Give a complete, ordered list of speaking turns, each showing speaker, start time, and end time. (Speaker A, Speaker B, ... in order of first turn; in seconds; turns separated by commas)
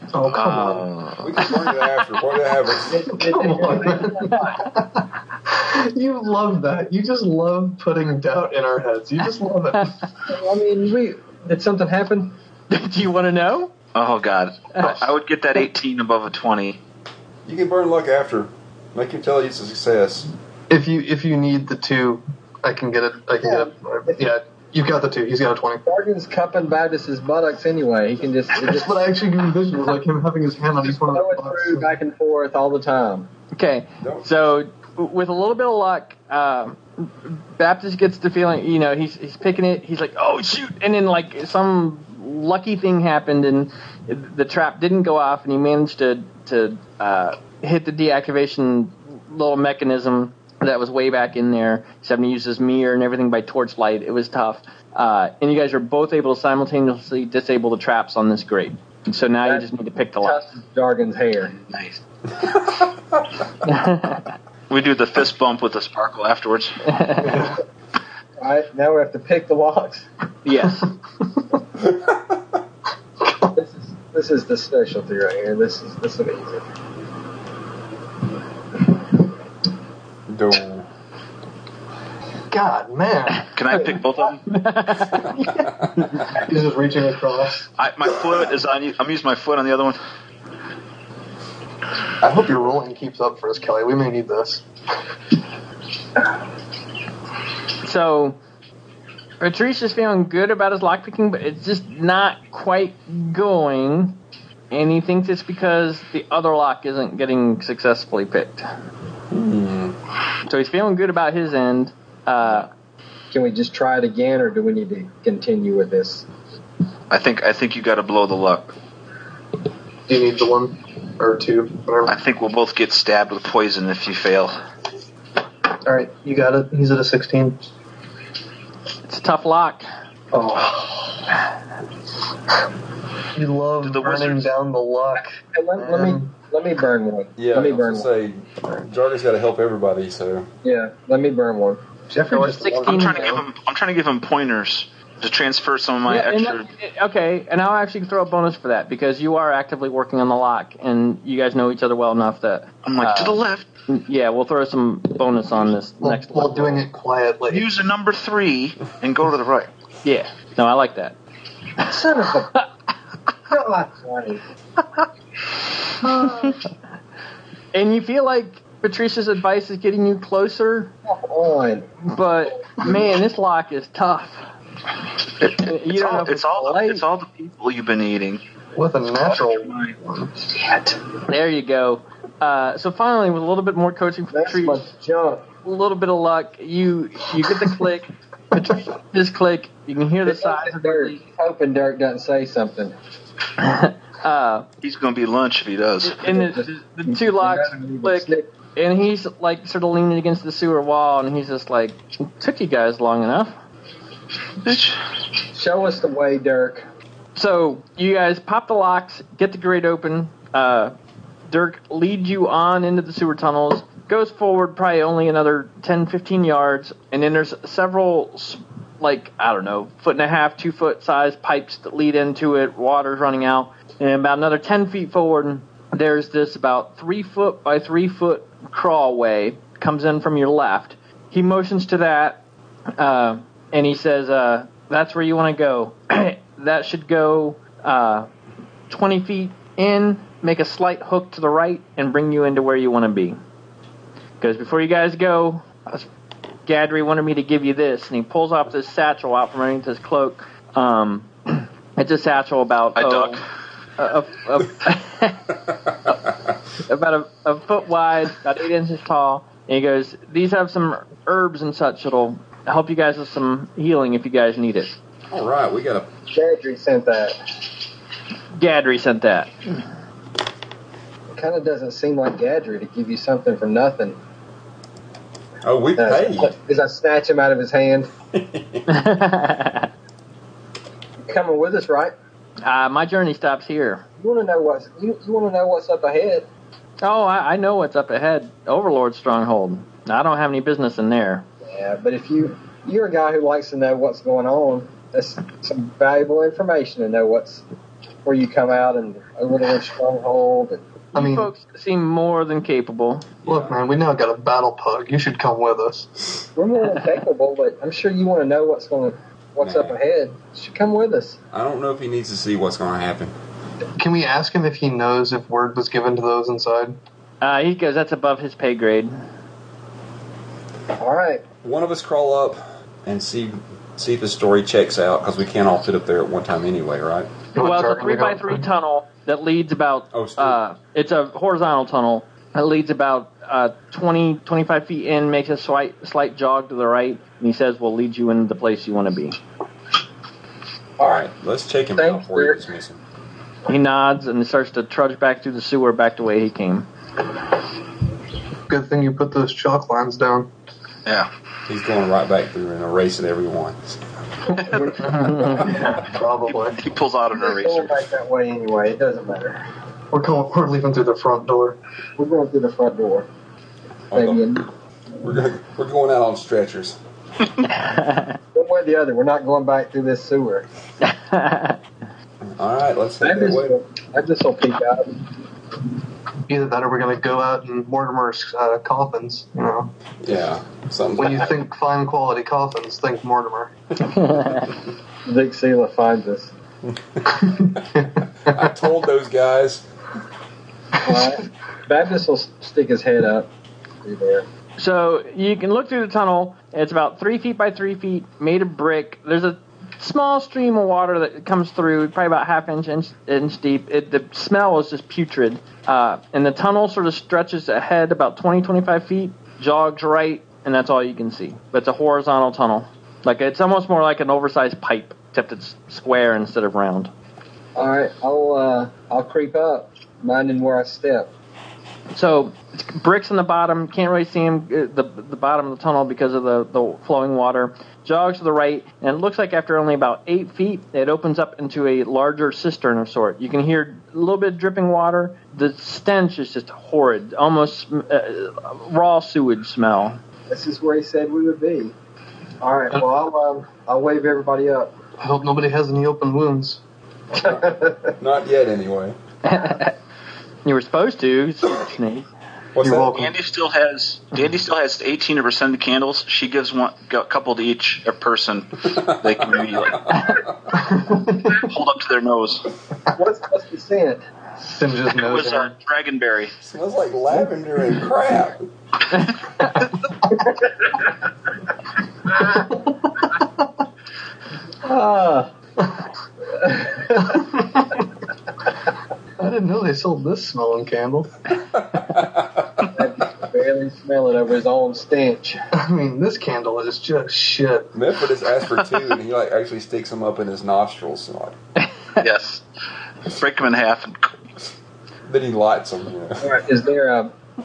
Speaker A: 0.1-0.9, Speaker B: 0.3-1.6, Speaker C: 1.2-3.2, Speaker D: 2.9-4.7, Speaker A: 3.1-10.0, Speaker E: 4.3-4.6, Speaker D: 10.2-12.3, Speaker E: 12.7-13.7, Speaker B: 13.9-16.8, Speaker C: 17.4-20.3, Speaker A: 20.7-25.8, Speaker D: 23.4-24.3, Speaker D: 25.8-29.1, Speaker A: 28.5-31.9, Speaker D: 30.9-33.3, Speaker E: 33.5-60.4, Speaker C: 34.0-34.3, Speaker D: 60.2-61.5, Speaker B: 61.5-62.0, Speaker E: 63.6-64.2, Speaker B: 64.7-66.8, Speaker E: 66.8-67.5, Speaker A: 67.2-67.5, Speaker D: 68.4-70.1, Speaker E: 70.4-70.9, Speaker C: 71.8-72.3, Speaker D: 73.5-76.6, Speaker C: 80.3-80.9, Speaker A: 82.5-83.5, Speaker B: 83.5-84.4, Speaker E: 84.5-86.3, Speaker A: 86.3-87.7, Speaker B: 87.8-90.0, Speaker A: 92.2-94.6, Speaker E: 97.8-98.4, Speaker E: 99.4-104.2, Speaker E: 104.7-108.7, Speaker C: 109.3-110.0, Speaker E: 110.5-112.7, Speaker D: 113.3-116.2, Speaker B: 117.1-118.7, Speaker A: 120.1-122.1, Speaker B: 122.0-124.6, Speaker A: 125.8-127.6, Speaker E: 129.1-129.9, Speaker A: 130.3-131.3, Speaker A: 133.3-136.3, Speaker B: 133.8-134.5, Speaker D: 135.1-138.1, Speaker C: 137.4-140.5, Speaker D: 140.6-141.8, Speaker A: 142.1-143.4, Speaker E: 142.3-143.4, Speaker B: 142.8-146.7, Speaker E: 146.1-156.9, Speaker B: 152.8-153.7, Speaker A: 156.0-157.7, Speaker B: 157.5-159.7, Speaker E: 160.0-161.2, Speaker D: 161.8-162.6, Speaker D: 163.5-164.4, Speaker E: 166.1-166.5, Speaker E: 167.7-170.9, Speaker D: 171.1-171.9, Speaker E: 172.0-174.5, Speaker B: 175.4-178.4, Speaker E: 175.5-176.5, Speaker D: 176.4-177.0, Speaker A: 178.8-180.3, Speaker B: 179.2-180.0, Speaker D: 180.5-181.0, Speaker E: 181.3-184.8, Speaker D: 184.3-185.4, Speaker E: 185.6-191.2, Speaker D: 190.2-192.9, Speaker E: 193.6-194.7, Speaker B: 194.8-196.2, Speaker E: 196.0-203.6, Speaker D: 196.2-198.5, Speaker B: 204.6-205.0, Speaker D: 205.5-206.9, Speaker E: 207.3-210.9, Speaker E: 211.5-232.4, Speaker E: 233.0-238.3, Speaker E: 238.9-243.4, Speaker E: 244.4-246.1, Speaker E: 246.6-253.4, Speaker B: 252.9-253.4, Speaker E: 254.0-255.4, Speaker E: 256.9-264.9, Speaker C: 265.3-266.1, Speaker D: 266.3-267.4, Speaker E: 268.6-269.5, Speaker D: 271.3-274.2, Speaker C: 275.6-276.5, Speaker D: 276.0-278.1, Speaker C: 278.3-278.9, Speaker E: 278.9-279.9, Speaker D: 281.2-282.1, Speaker E: 282.6-284.0, Speaker D: 284.2-286.5, Speaker E: 287.0-291.4, Speaker D: 291.7-297.6, Speaker D: 298.2-300.8, Speaker E: 301.1-303.2, Speaker A: 301.1-301.5, Speaker C: 303.4-303.8, Speaker A: 303.4-306.1, Speaker D: 306.6-311.4, Speaker C: 309.6-310.0, Speaker C: 311.5-313.3, Speaker A: 314.0-317.0, Speaker E: 317.4-319.1, Speaker D: 321.0-321.4, Speaker C: 321.6-327.3, Speaker A: 327.5-328.6, Speaker E: 327.6-339.4, Speaker C: 330.1-330.6, Speaker C: 341.0-343.0, Speaker D: 342.0-342.6, Speaker E: 343.7-346.9, Speaker A: 348.7-350.5, Speaker C: 351.7-354.0, Speaker D: 354.5-356.0, Speaker A: 355.1-356.8, Speaker E: 355.1-355.7, Speaker B: 356.5-358.1, Speaker D: 357.3-359.6, Speaker A: 360.1-361.8, Speaker D: 362.2-363.3, Speaker C: 364.1-364.5, Speaker D: 364.1-364.7, Speaker C: 365.2-367.0, Speaker E: 367.7-368.4, Speaker D: 368.5-370.7, Speaker E: 371.0-371.8, Speaker C: 372.4-373.7, Speaker D: 373.2-375.2, Speaker A: 376.5-379.9, Speaker C: 380.2-381.5, Speaker A: 381.2-383.7, Speaker E: 384.1-384.7, Speaker D: 385.2-386.5, Speaker C: 386.9-387.6, Speaker A: 387.5-388.6, Speaker C: 388.4-389.8, Speaker D: 391.0-393.5, Speaker D: 394.0-394.4, Speaker E: 394.8-417.1, Speaker D: 417.8-421.3, Speaker E: 422.1-440.2, Speaker D: 440.5-441.9, Speaker D: 442.6-444.9, Speaker A: 445.2-446.8, Speaker D: 447.4-448.1, Speaker C: 448.2-449.1, Speaker E: 449.4-449.9, Speaker E: 450.6-452.3, Speaker C: 452.7-453.1, Speaker A: 452.8-453.3, Speaker B: 453.0-460.1, Speaker C: 459.9-460.5, Speaker A: 460.7-461.7, Speaker B: 461.5-462.7, Speaker D: 463.1-464.2, Speaker A: 464.6-465.7, Speaker B: 465.1-466.5, Speaker C: 466.6-468.6, Speaker D: 470.4-471.1, Speaker D: 472.3-472.7, Speaker A: 473.3-473.6, Speaker D: 474.8-475.5, Speaker D: 476.5-477.5, Speaker A: 479.4-481.3, Speaker C: 481.9-482.5, Speaker D: 482.9-485.6, Speaker A: 485.7-487.9, Speaker C: 487.9-491.6, Speaker B: 492.2-492.6, Speaker B: 493.3-494.3, Speaker C: 495.2-496.5, Speaker D: 496.4-497.3